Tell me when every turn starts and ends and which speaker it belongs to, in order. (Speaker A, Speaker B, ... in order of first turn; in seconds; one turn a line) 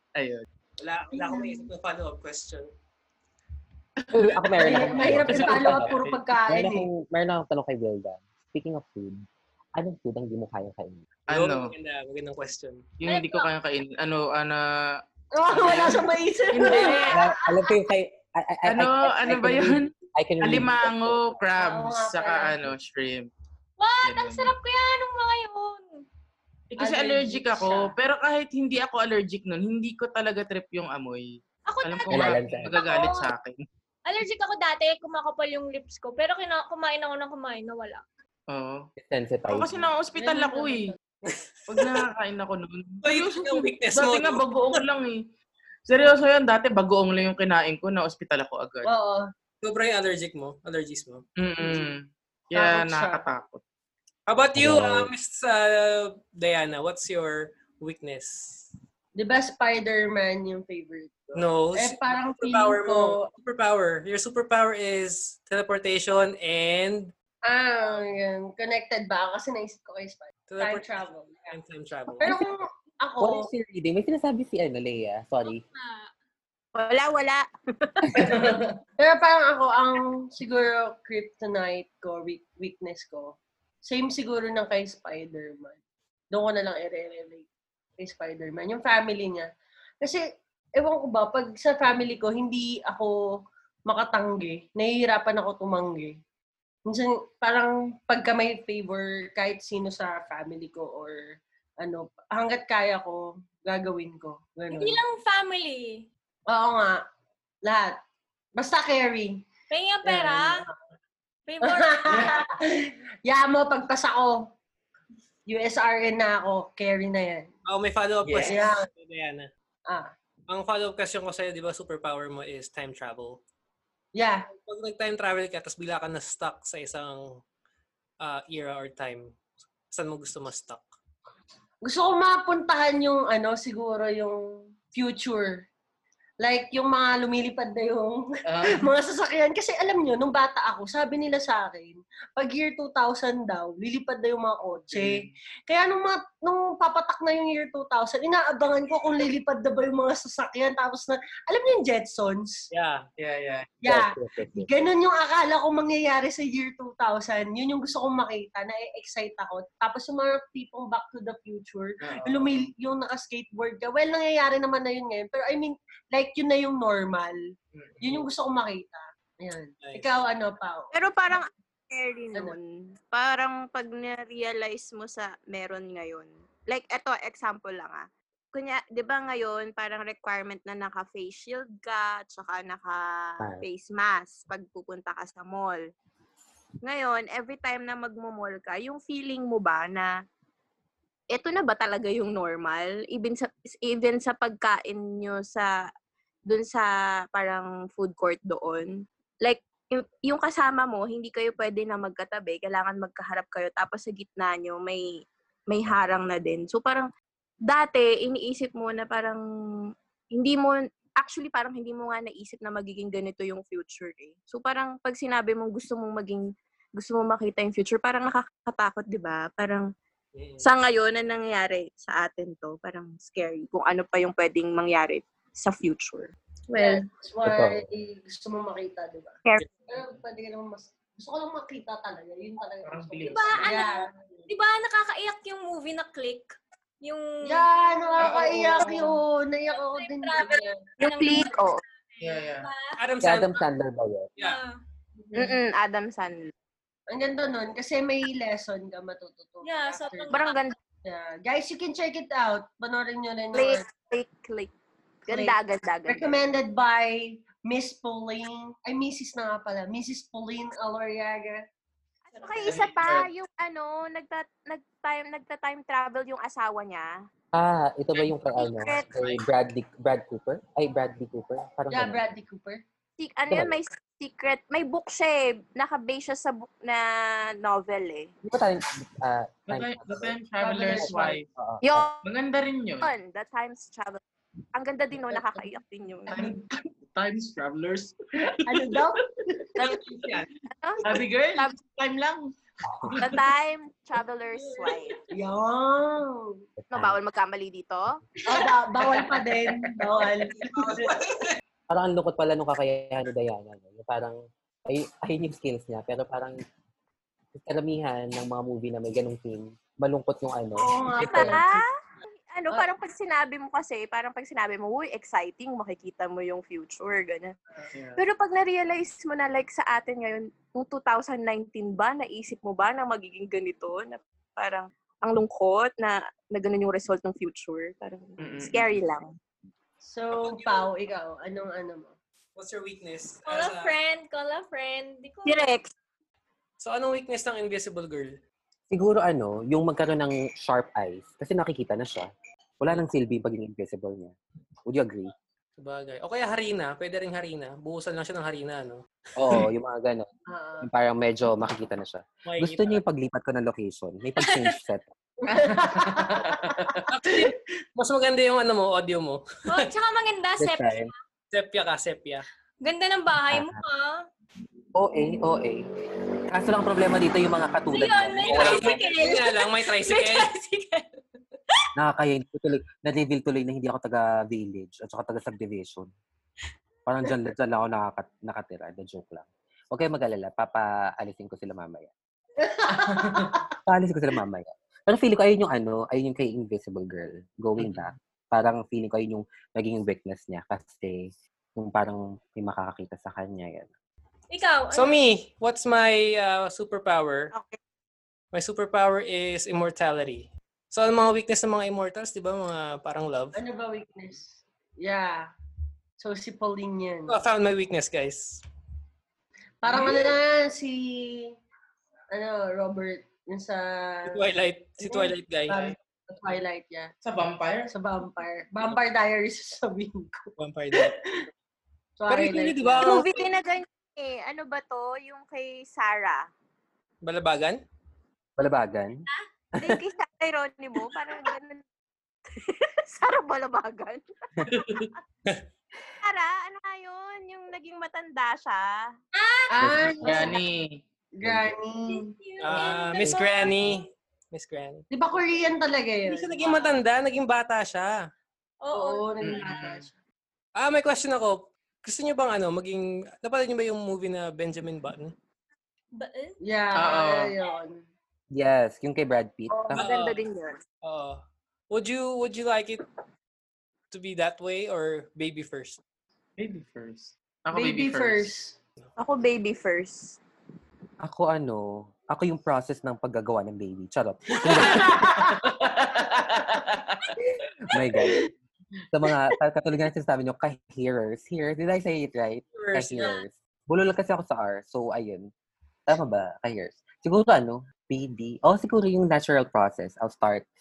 Speaker A: 0.1-0.4
Speaker B: 0.8-2.7
Speaker C: 1.1-1.7
Speaker A: 4.0-6.1
Speaker D: 4.1-9.2
Speaker C: 4.6-6.9
Speaker D: 9.7-11.1
Speaker A: 11.3-11.7
Speaker B: 11.3-12.9
Speaker A: 13.0-15.0
Speaker E: 13.1-13.5
Speaker C: 15.3-17.6
Speaker A: 15.5-17.2
Speaker D: 17.1-21.4
Speaker A: 18.6-23.3
Speaker C: 21.6-22.7
Speaker E: 23.8-26.0
Speaker A: 24.0-24.5
Speaker A: 26.7-31.3
Speaker C: 26.8-27.9
Speaker E: 31.6-33.3
Speaker A: 31.8-33.6
Speaker D: 32.1-32.8
Speaker E: 34.0-38.0
Speaker A: 38.5-38.9
Speaker D: 39.0-39.9
Speaker A: 39.5-40.9
Speaker C: 40.1-41.0
Speaker A: 41.7-45.2
Speaker B: 41.7-42.0
Speaker B: 43.0-44.9
Speaker A: 45.9-48.9
Speaker C: 48.9-49.2
Speaker B: 49.6-51.2
Speaker A: 51.4-53.6
Speaker C: 52.5-53.2
Speaker B: 54.3-58.7
Speaker D: 54.5-55.1
Speaker C: 59.1-61.2
Speaker B: 61.3-67.1
Speaker C: 61.7-63.3
Speaker C: 67.5-71.5
Speaker B: 70.5-72.4
Speaker C: 72.2-73.5
Speaker D: 73.2-75.6
Speaker E: 75.4-76.1
Speaker F: 76.7-78.5
Speaker C: 78.2-85.8
Speaker C: 86.3-87.5
Speaker C: 88.0-89.5
Speaker C: 90.8-93.2
Speaker C: 93.9-96.2
Speaker C: 96.9-105.0
Speaker E: 104.7-106.0
Speaker C: 106.5-107.0
Speaker C: 107.6-108.0
Speaker C: 108.6-109.4
Speaker E: 109.7-110.7
Speaker C: 110.0-110.7
Speaker E: 111.5-112.4
Speaker C: 111.6-114.5
Speaker C: 115.5-117.5
Speaker B: 117.7-119.5
Speaker C: 118.5-118.8
Speaker B: 120.5-123.4
Speaker C: 124.2-124.5
Speaker B: 124.6-127.4
Speaker B: 128.2-129.3
Speaker B: 129.9-130.8
Speaker C: 131.8-135.6
Speaker C: 136.4-152.7
Speaker A: 138.4-138.9
Speaker A: 144.9-145.3
Speaker B: 152.7-153.1
Speaker A: 153.2-153.7
Speaker C: 153.8-167.4
Speaker D: 153.8-154.8
Speaker A: 162.0-162.7
Speaker A: 167.7-168.2
Speaker C: 168.0-170.9
Speaker B: 169.8-170.1
Speaker F: 170.9-185.8
Speaker D: 183.4-183.6
Speaker F: 186.8-190.1
Speaker F: 191.3-195.7
Speaker F: 196.5-207.1
Speaker F: 207.7-209.4
Speaker F: 210.3-219.9
Speaker B: 220.3-220.7
Speaker F: 220.6-227.0
Speaker C: 226.8-234.1
Speaker D: 227.4-227.8
Speaker A: 232.8-233.7
Speaker E: 233.3-238.3
Speaker C: 237.4-240.8
Speaker A: 238.2-239.1
Speaker E: 239.7-243.0
Speaker F: 241.0-241.8
Speaker A: 242.2-242.7
Speaker B: 243.0-243.6
Speaker D: 243.2-244.3
Speaker E: 244.4-244.8
Speaker F: 245.3-246.5
Speaker C: 247.1-250.3
Speaker E: 249.6-250.6
Speaker F: 250.3-250.7
Speaker C: 251.0-253.8
Speaker F: 253.5-254.7
Speaker F: 255.3-256.3
Speaker C: 255.3-255.6
Speaker C: 256.1-261.6
Speaker F: 262.3-267.2
Speaker A: 262.6-263.3
Speaker D: 267.5-272.2
Speaker A: 268.1-269.4
Speaker F: 268.6-269.1
Speaker C: 271.9-272.8
Speaker F: 273.2-278.3
Speaker D: 273.5-273.8
Speaker D: 278.4-280.3
Speaker A: 279.7-281.4
Speaker C: 280.6-281.4
Speaker D: 280.9-282.1
Speaker F: 281.8-282.2
Speaker A: 282.2-283.1
Speaker F: 283.0-284.2
Speaker F: 284.7-286.5
Speaker A: 286.3-289.1
Speaker C: 288.6-289.8
Speaker B: 290.1-290.4
Speaker F: 290.8-291.8
Speaker A: 291.0-292.5
Speaker A: 293.1-293.4
Speaker F: 293.2-295.2
Speaker C: 295.3-296.6
Speaker D: 296.8-297.2
Speaker F: 296.9-298.2
Speaker C: 298.4-301.1
Speaker A: 298.5-300.2
Speaker B: 300.6-301.5
Speaker D: 301.9-306.6
Speaker D: 307.5-311.7
Speaker C: 310.8-311.6
Speaker F: 311.2-311.8
Speaker F: 312.5-317.5
Speaker A: 317.9-318.2
Speaker F: 318.2-329.4
Speaker A: 328.4-329.0
Speaker C: 330.0-332.1
Speaker B: 330.3-330.9
Speaker B: 332.6-333.9
Speaker E: 333.4-335.6
Speaker F: 335.4-335.9
Speaker B: 336.8-338.4
Speaker D: 338.9-344.3
Speaker D: 344.9-345.3
Speaker B: 345.8-349.0
Speaker D: 349.4-350.3
Speaker C: 350.5-350.9
Speaker D: 350.8-355.1
Speaker B: 352.4-353.0
Speaker C: 355.4-357.0
Speaker A: 355.5-357.0
Speaker B: 357.1-359.9
Speaker E: 359.7-361.1
Speaker D: 360.6-361.1
Speaker B: 361.5-362.4
Speaker E: 362.8-364.2
Speaker D: 363.5-363.8
Speaker D: 364.9-365.9
Speaker D: 366.5-369.1
Speaker E: 367.9-371.2
Speaker B: 368.4-370.5
Speaker D: 371.9-376.1
Speaker D: 377.1-382.1
Speaker C: 382.6-383.6
Speaker A: 383.1-383.4
Speaker D: 383.9-393.9
Speaker E: 394.5-395.2
Speaker B: 394.9-397.5
Speaker F: 397.5-397.8
Speaker B: 398.5-403.6
Speaker C: 403.5-405.5
Speaker C: 406.2-407.3
Speaker B: 407.3-408.6
Speaker C: 409.8-411.5
Speaker C: 412.3-414.4
Speaker B: 414.3-415.8
Speaker C: 415.0-417.1
Speaker A: 417.2-417.9
Speaker C: 417.9-421.2
Speaker B: 420.6-421.1
Speaker C: 422.2-423.2
Speaker B: 422.3-423.3
Speaker F: 423.0-426.5
Speaker B: 427.2-427.8
Speaker D: 428.6-429.2
Speaker D: 429.8-430.0
Speaker F: 429.8-431.8
Speaker F: 432.5-435.1
Speaker A: 434.7-435.1
Speaker F: 436.2-439.1
Speaker E: 439.3-440.6
Speaker C: 439.7-440.6
Speaker D: 439.8-440.2
Speaker A: 440.2-441.0
Speaker C: 441.4-442.3
Speaker D: 441.4-441.7
Speaker E: 442.1-444.1
Speaker B: 442.6-445.0
Speaker C: 445.1-446.9
Speaker B: 446.3-448.2
Speaker E: 448.8-449.4
Speaker C: 448.9-450.1
Speaker A: 449.4-450.0
Speaker B: 450.8-455.3
Speaker E: 456.1-456.6
Speaker C: 456.6-458.0
Speaker A: 456.9-457.5
Speaker D: 458.5-460.1
Speaker F: 459.7-460.8
Speaker B: 459.9-460.4
Speaker B: 461.0-463.1
Speaker B: 464.1-466.0
Speaker A: 466.6-468.5
Speaker C: 467.7-468.8
Speaker F: 469.2-470.4
Speaker D: 471.2-475.5
Speaker C: 474.7-475.9
Speaker A: 475.2-477.3
Speaker D: 477.9-478.4
Speaker C: 478.1-478.5
Speaker D: 479.1-485.5
Speaker B: 482.7-483.4
Speaker D: 486.1-490.6